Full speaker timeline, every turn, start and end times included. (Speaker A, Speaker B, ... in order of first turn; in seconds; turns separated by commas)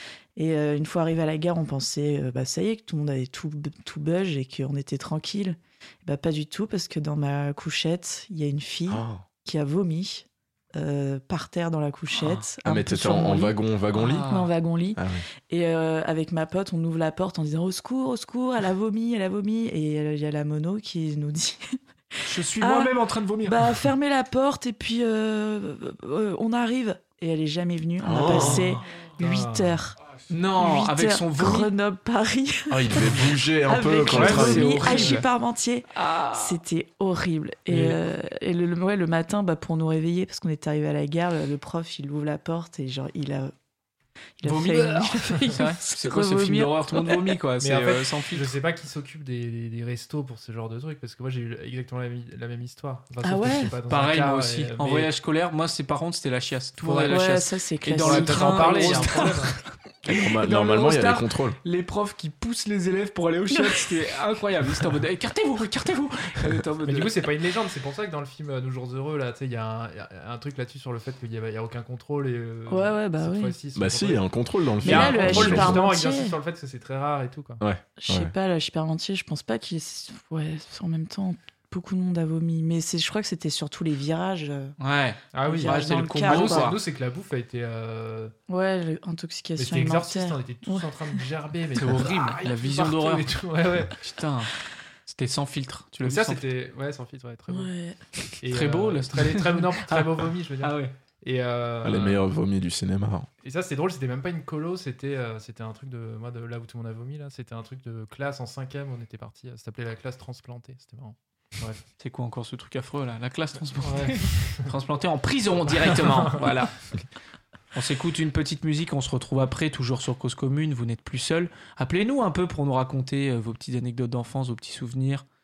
Speaker A: 0.3-13.6, Speaker B: 8.9-9.2, Speaker C: 12.2-12.4, Speaker B: 12.6-14.3, Speaker C: 13.9-14.5, Speaker A: 14.2-21.8, Speaker B: 14.9-15.2, Speaker C: 22.2-23.8, Speaker A: 22.6-30.0, Speaker B: 28.0-28.6, Speaker C: 28.2-28.8, Speaker D: 29.2-29.8, Speaker C: 30.3-31.7, Speaker A: 30.6-43.5, Speaker B: 32.7-35.0, Speaker D: 34.1-35.2, Speaker C: 34.4-35.2, Speaker C: 35.9-36.6, Speaker D: 37.7-38.0, Speaker A: 44.4-47.4, Speaker C: 44.4-48.5, Speaker D: 45.4-45.7, Speaker D: 47.6-55.1, Speaker A: 53.2-53.8, Speaker C: 53.9-59.6, Speaker A: 56.8-59.4, Speaker D: 56.9-57.2, Speaker D: 58.0-59.6, Speaker B: 60.0-61.6, Speaker C: 60.2-67.3, Speaker D: 66.8-77.6, Speaker A: 72.7-73.5, Speaker B: 73.7-75.8, Speaker A: 74.8-76.4, Speaker B: 77.6-78.3, Speaker A: 78.0-84.8, Speaker C: 84.8-86.8, Speaker D: 85.3-88.3, Speaker A: 85.4-86.8, Speaker A: 88.5-91.2, Speaker D: 89.5-94.0, Speaker C: 91.7-93.3, Speaker C: 94.0-94.5, Speaker C: 95.0-96.5, Speaker D: 96.0-97.7, Speaker A: 97.5-98.0, Speaker D: 98.4-102.2, Speaker C: 98.5-100.9, Speaker B: 101.8-103.3, Speaker D: 103.4-111.8, Speaker C: 112.0-117.0, Speaker D: 113.8-114.7, Speaker D: 115.7-116.5, Speaker C: 117.7-125.2